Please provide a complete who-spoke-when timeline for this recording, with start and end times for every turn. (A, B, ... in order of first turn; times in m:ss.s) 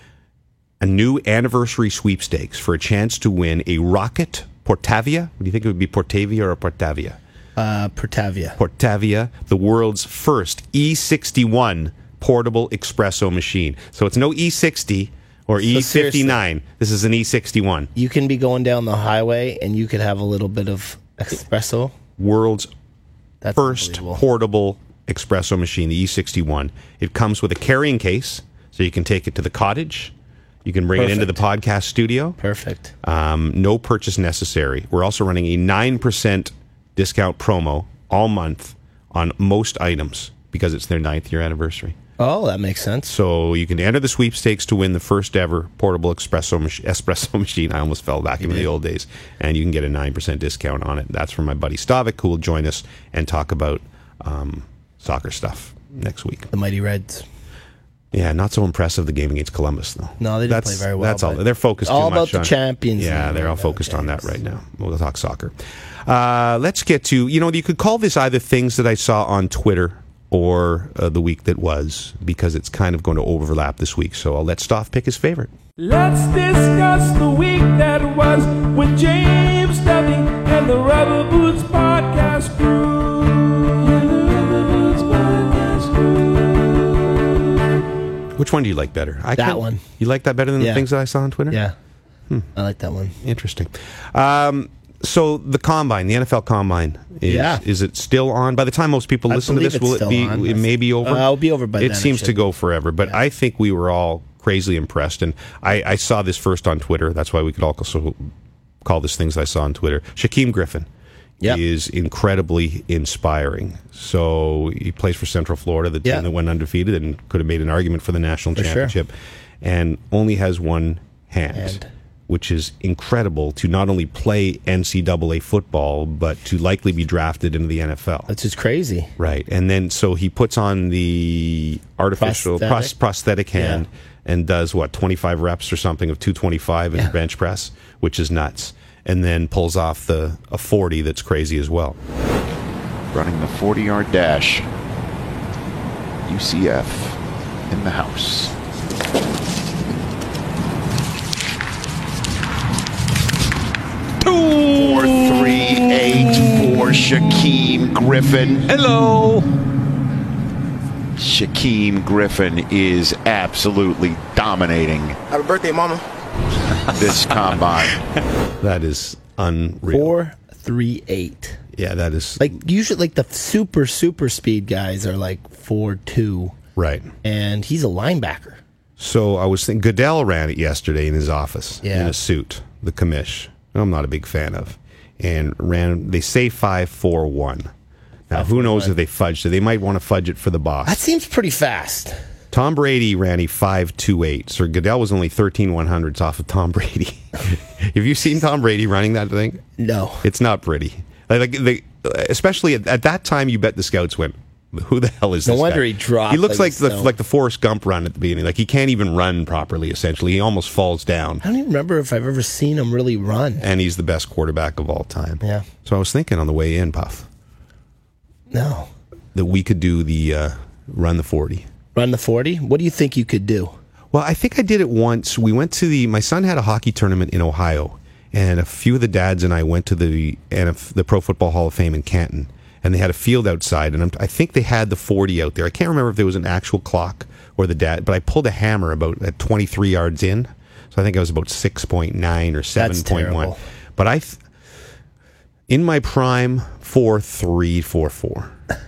0:00.8-0:07.2 A
0:07.6-0:08.6 B
0:08.6-0:17.9 A
0:15.6-0:16.4 B
0:18.0-0:21.9 B
0:22.2-0:22.7 A
0:23.4-0:24.2 B
0:23.6-0:30.1 A
0:30.6-0:32.4 A
0:31.0-0:31.4 B
0:32.4-0:32.9 B
0:33.0-0:42.0 A
0:42.2-0:43.1 B
0:43.1-0:56.5 A
0:48.4-0:48.7 B
0:56.5-0:57.2 B
0:58.1-1:15.5 A
1:00.2-1:04.4 B
1:15.8-1:27.4 C
1:28.4-1:31.6 A
1:29.4-1:29.8 B
1:30.6-1:30.8 B
1:32.6-1:33.2 B
1:33.2-1:48.3 A
1:37.2-1:37.6 B
1:39.3-1:42.4 B
1:48.8-1:50.9 A
1:51.4-2:08.3 A
1:58.6-1:58.9 B
2:01.6-2:01.9 B
2:08.3-2:09.1 B
2:09.2-2:22.0 A
2:12.2-2:13.0 B
2:13.6-2:13.8 B
2:23.1-2:24.7 D
2:26.2-2:28.5 D
2:34.2-2:38.7 D
2:38.8-2:39.3 A
2:41.2-2:45.2 D
2:46.9-2:48.0 D
2:48.6-2:50.2 A
2:49.9-2:51.6 B
2:51.7-2:52.6 A
2:52.4-2:56.6 B
2:56.8-2:57.1 A
2:57.2-2:58.6 B
2:59.0-3:07.7 A
3:01.8-3:02.2 B
3:08.3-3:11.0 A
3:08.3-3:08.9 B
3:10.9-3:12.2 B
3:12.5-3:19.6 A
3:19.8-3:20.3 B
3:20.2-3:31.4 A
3:25.4-3:27.1 B
3:31.4-3:33.6 B
3:33.6-3:37.3 A
3:38.5-3:38.9 B
3:39.4-3:41.7 A
3:42.0-3:43.7 B
3:44.1-4:04.4 A
4:02.8-4:03.6 B
4:05.7-4:08.5 A